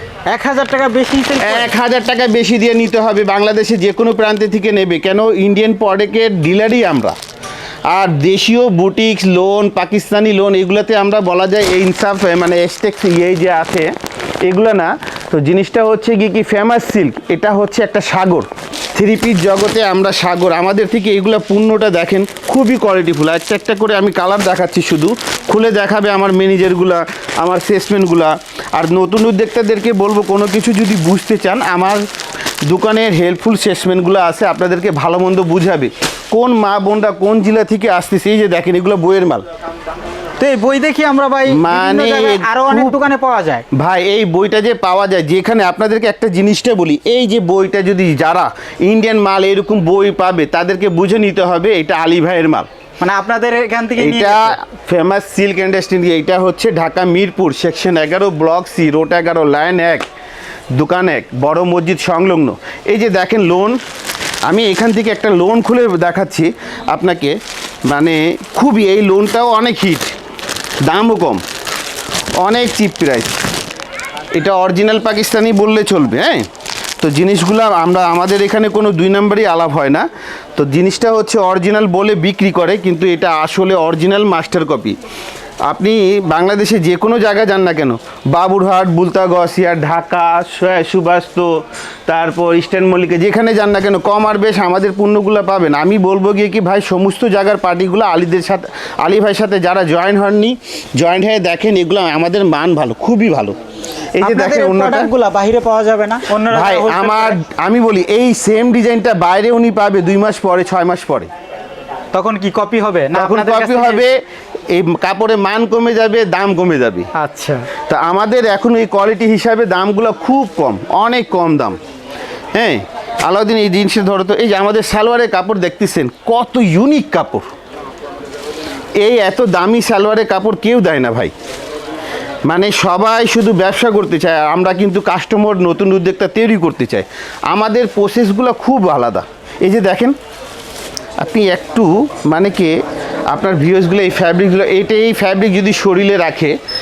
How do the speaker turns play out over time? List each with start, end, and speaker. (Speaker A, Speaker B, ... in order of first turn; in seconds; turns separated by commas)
Speaker A: 0.3-1.8, Speaker B: 1.4-7.2, Speaker B: 7.9-13.9, Speaker B: 14.4-32.0, Speaker B: 32.7-39.5, Speaker A: 40.4-43.6, Speaker B: 41.5-43.0, Speaker B: 43.7-52.7, Speaker A: 53.0-54.5, Speaker B: 54.0-60.0, Speaker B: 60.8-63.8, Speaker B: 64.5-67.4, Speaker B: 67.9-70.1, Speaker B: 70.8-71.4, Speaker B: 72.4-73.4, Speaker B: 74.3-76.4, Speaker B: 77.0-85.0, Speaker B: 85.7-91.5, Speaker B: 92.1-103.6, Speaker B: 104.2-105.1, Speaker A: 104.2-107.4, Speaker B: 106.5-111.3, Speaker A: 112.1-114.1, Speaker B: 113.2-114.1, Speaker B: 114.7-117.1, Speaker A: 117.1-117.7, Speaker B: 117.9-121.8, Speaker B: 122.5-127.5, Speaker B: 129.0-131.3, Speaker B: 132.5-140.2, Speaker B: 141.2-142.8, Speaker B: 143.3-146.6